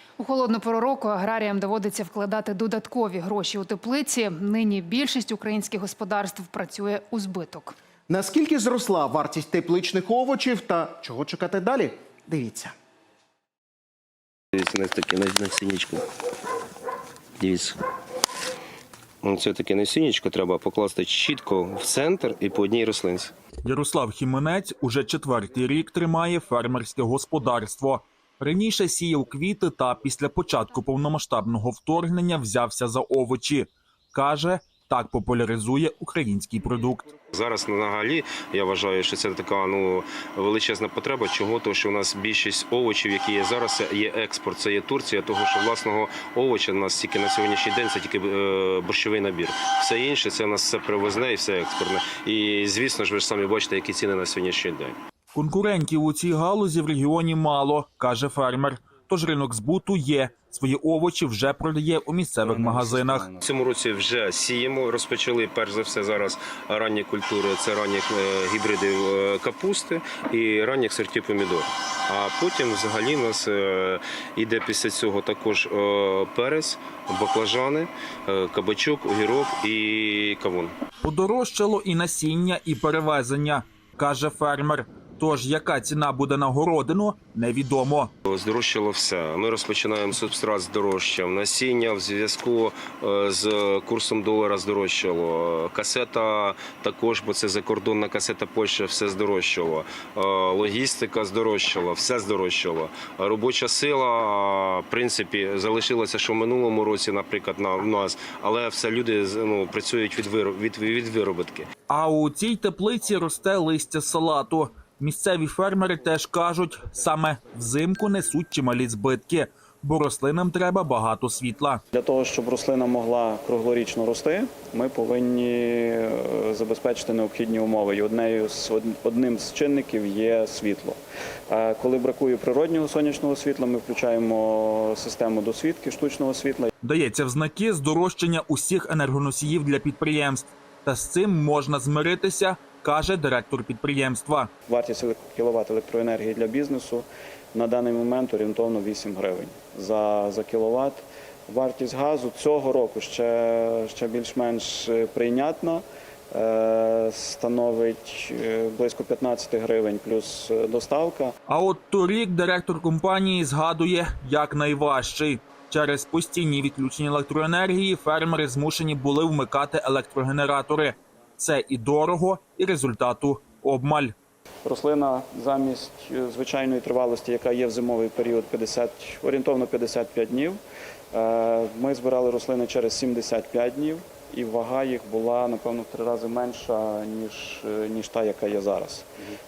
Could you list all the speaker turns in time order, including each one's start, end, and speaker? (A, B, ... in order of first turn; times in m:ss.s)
0:00.2-0:07.7 A
0:08.1-0:12.8 B
0:14.6-0:16.0 C
0:17.4-0:17.8 C
0:19.2-0:23.3 C
0:23.6-0:37.1 D
0:37.3-0:55.0 C
0:55.3-1:03.3 D
1:03.4-1:20.7 C
1:21.0-1:28.1 D
1:28.2-1:51.7 C
1:51.9-2:01.8 D
2:01.9-2:16.7 E
2:16.8-2:24.5 D
2:24.7-2:41.3 E
2:41.5-2:54.1 D
2:54.6-3:00.6 E
3:01.1-3:09.1 E